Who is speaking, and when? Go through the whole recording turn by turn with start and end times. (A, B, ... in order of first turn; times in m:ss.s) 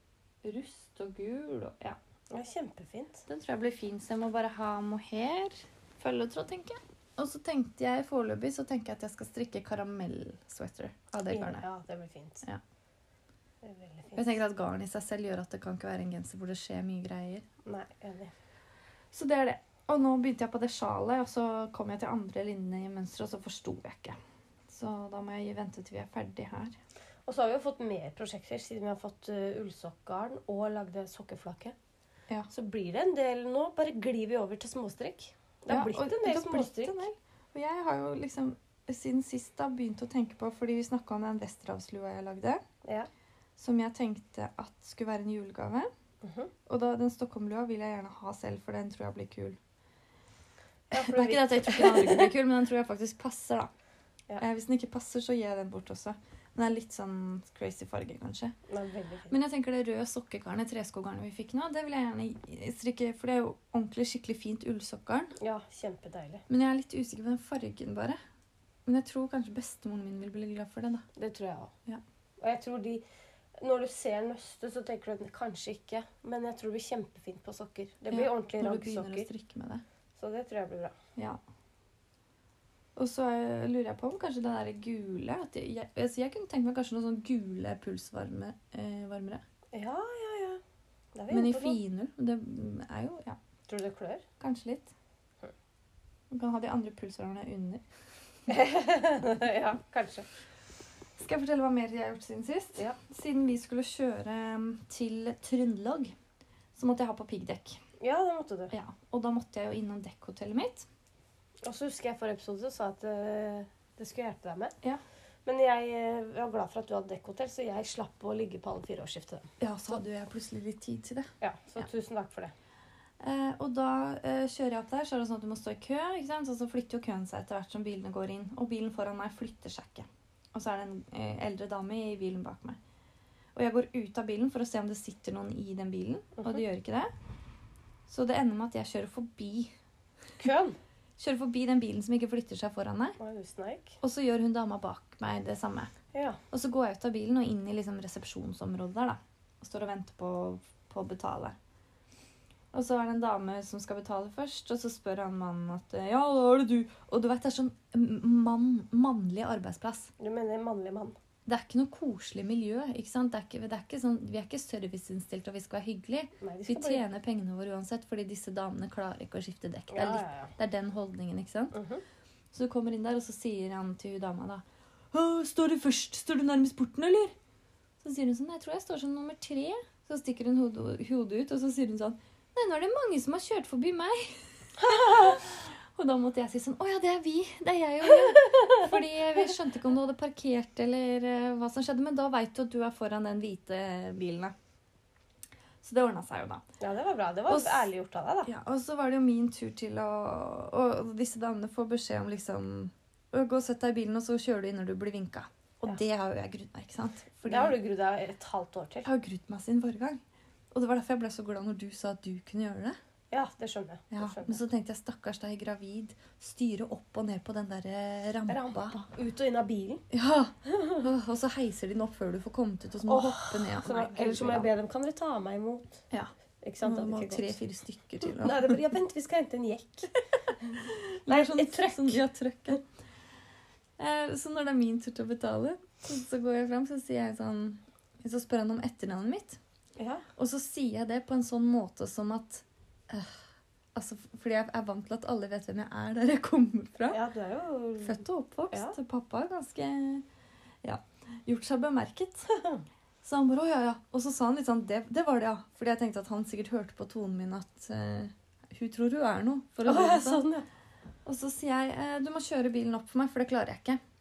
0:00.4-0:02.0 A
0:02.3-0:03.3 B
0:03.3-0:11.6 A
0:11.3-0:12.4 B
0:13.6-0:14.4 B
0:14.2-0:17.5 A
0:17.6-0:18.3 B
0:19.1-0:24.2 A
0:24.7-0:26.8 A
0:27.3-0:31.8 B
0:32.5-0:37.0 B
0:35.7-0:42.6 A
0:42.8-0:43.1 B
0:43.6-0:45.9 A
0:46.2-0:46.5 B
0:46.7-0:49.6 A
0:50.9-0:52.3 B
0:50.9-0:53.7 A
0:54.4-0:58.6 A
0:58.7-0:59.3 B
0:59.3-1:05.4 A
1:05.4-1:06.4 B
1:06.5-1:08.2 A
1:08.9-1:11.0 A
1:11.2-1:11.7 B
1:12.4-1:13.0 B
1:13.6-1:19.3 B
1:18.1-1:19.8 A
1:20.2-1:21.0 B
1:23.0-1:29.4 A
1:29.7-1:30.6 B
1:31.2-1:31.8 B
1:31.3-1:33.4 A
1:33.7-1:34.2 B
1:34.4-1:34.9 A
1:36.3-1:37.8 A
1:38.5-1:40.3 B
1:41.2-1:46.2 A
1:46.8-1:47.8 A
1:48.0-1:48.7 B
1:48.7-1:50.9 A
1:51.6-1:54.8 B
1:55.5-1:59.5 B
1:59.6-2:01.8 A
2:01.4-2:02.5 B
2:03.2-2:12.8 A
2:13.6-2:17.1 A
2:16.4-2:16.6 B
2:18.1-2:19.7 A
2:20.4-2:20.8 B
2:21.2-2:23.2 A
2:23.2-2:24.0 B
2:24.0-2:25.9 A
2:26.1-2:26.4 B
2:26.5-2:31.6 A
2:32.7-2:40.1 A
2:40.2-2:41.2 B
2:41.5-2:51.8 A
2:46.4-2:47.0 B
2:49.9-2:50.5 B
2:51.7-2:52.0 B
2:52.5-2:57.4 A
2:58.0-3:14.5 A
3:04.8-3:05.4 B
3:08.5-3:08.9 B
3:15.8-3:16.6 A
3:16.8-3:18.5 B
3:17.5-3:17.9 A
3:18.4-3:27.8 A
3:27.5-3:29.1 B
3:29.0-3:33.0 A
3:33.3-3:34.6 B
3:34.1-3:39.0 A
3:38.5-3:40.0 B
3:40.1-3:44.7 A
3:40.7-3:41.0 B
3:43.1-3:46.0 B
3:46.1-3:48.8 A
3:46.6-3:47.6 B
3:48.2-3:52.2 B
3:50.8-3:52.8 A
3:54.0-3:59.6 A
4:00.0-4:00.2 B
4:00.4-4:03.4 A
4:04.0-4:07.2 A
4:07.1-4:08.2 B
4:08.0-4:10.2 A
4:10.8-4:12.5 A
4:12.5-4:12.8 B
4:13.2-4:20.4 A
4:19.8-4:20.7 B
4:21.2-4:24.0 A